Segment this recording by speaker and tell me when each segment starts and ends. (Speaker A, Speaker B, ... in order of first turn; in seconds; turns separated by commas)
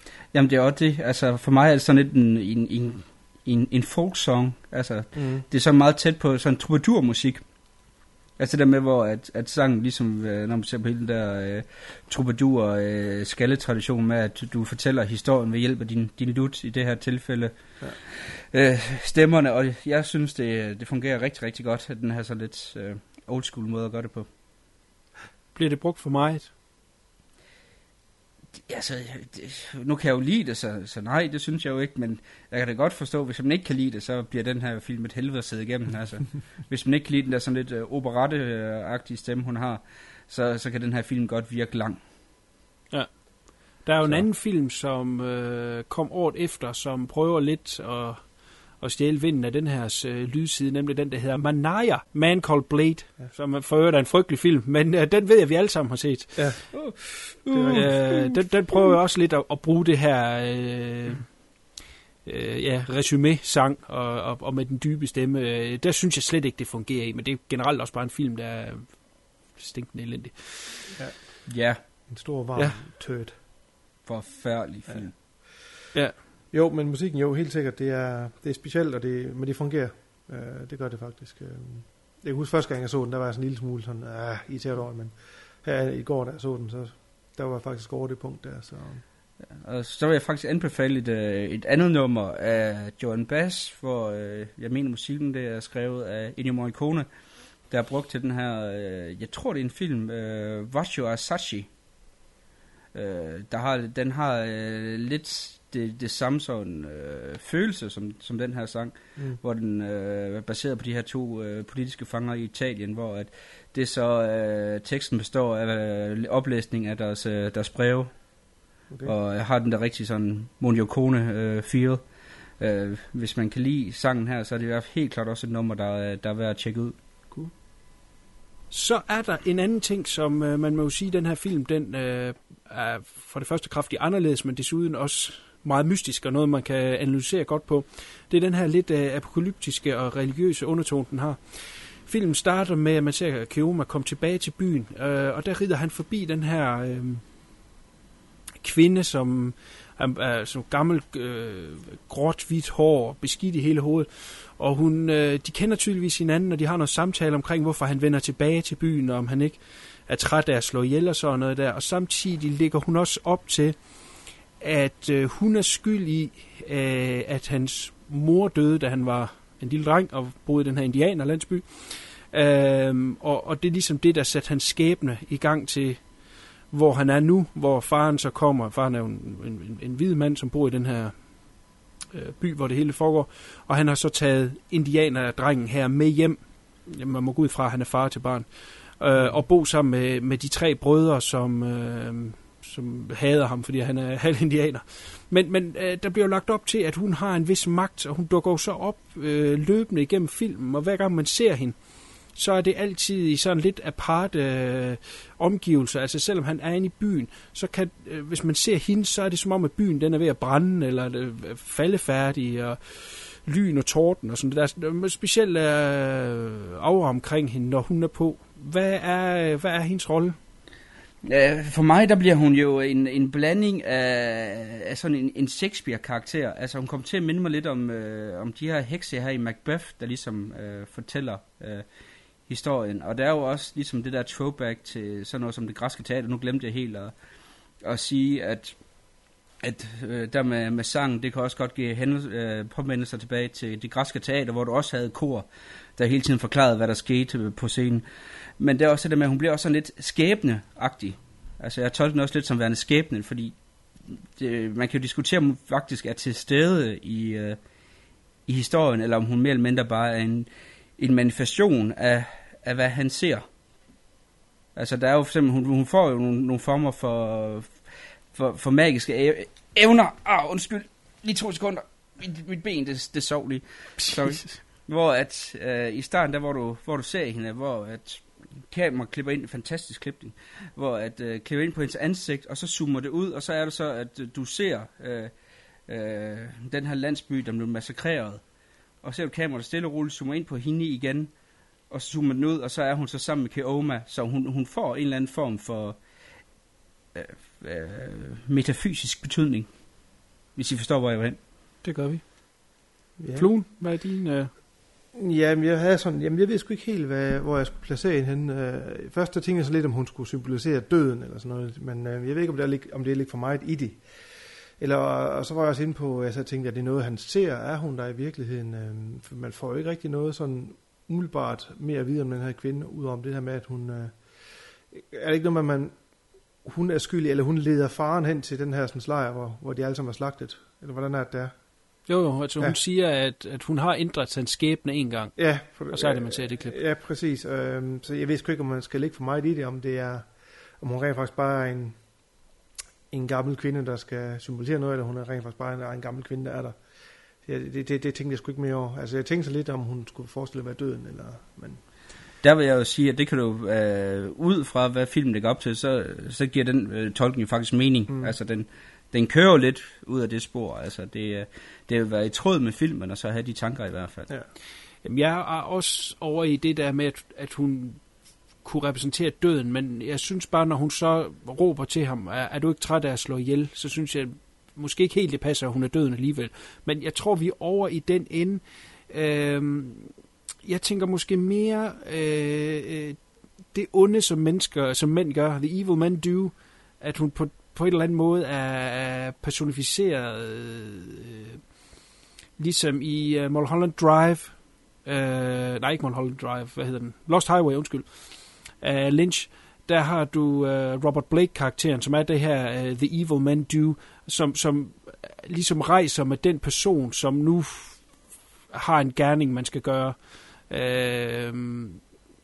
Speaker A: 0.3-24.3, Speaker B: 5.1-5.4, Speaker C: 25.5-26.5, Speaker A: 28.6-42.0, Speaker C: 42.9-56.7, Speaker A: 44.0-44.3, Speaker B: 56.3-58.1, Speaker A: 57.5-58.2, Speaker C: 57.7-61.6, Speaker C: 62.2-70.8, Speaker B: 70.9-73.4, Speaker A: 71.5-71.8, Speaker C: 72.5-72.8, Speaker A: 74.0-75.1, Speaker B: 74.8-75.2, Speaker B: 76.5-89.0, Speaker A: 89.5-97.1, Speaker A: 97.7-101.7, Speaker A: 102.9-122.0, Speaker B: 118.9-119.1, Speaker A: 122.6-127.0, Speaker C: 128.7-147.2, Speaker C: 148.6-220.4, Speaker B: 189.1-189.4, Speaker A: 221.2-231.8, Speaker A: 232.5-237.1, Speaker A: 237.8-248.0, Speaker A: 248.6-257.6, Speaker A: 258.4-263.4, Speaker A: 264.7-285.3, Speaker A: 285.9-288.4, Speaker A: 289.0-291.3, Speaker A: 291.9-296.4, Speaker A: 297.1-301.4, Speaker C: 301.8-302.7, Speaker B: 303.2-303.6, Speaker C: 303.4-304.5, Speaker B: 305.1-314.1, Speaker B: 314.8-331.9, Speaker C: 332.1-336.8, Speaker B: 335.4-342.1, Speaker B: 343.1-346.8, Speaker B: 347.4-351.8, Speaker A: 352.4-364.3, Speaker B: 358.1-358.3, Speaker C: 365.0-391.6, Speaker C: 392.6-412.2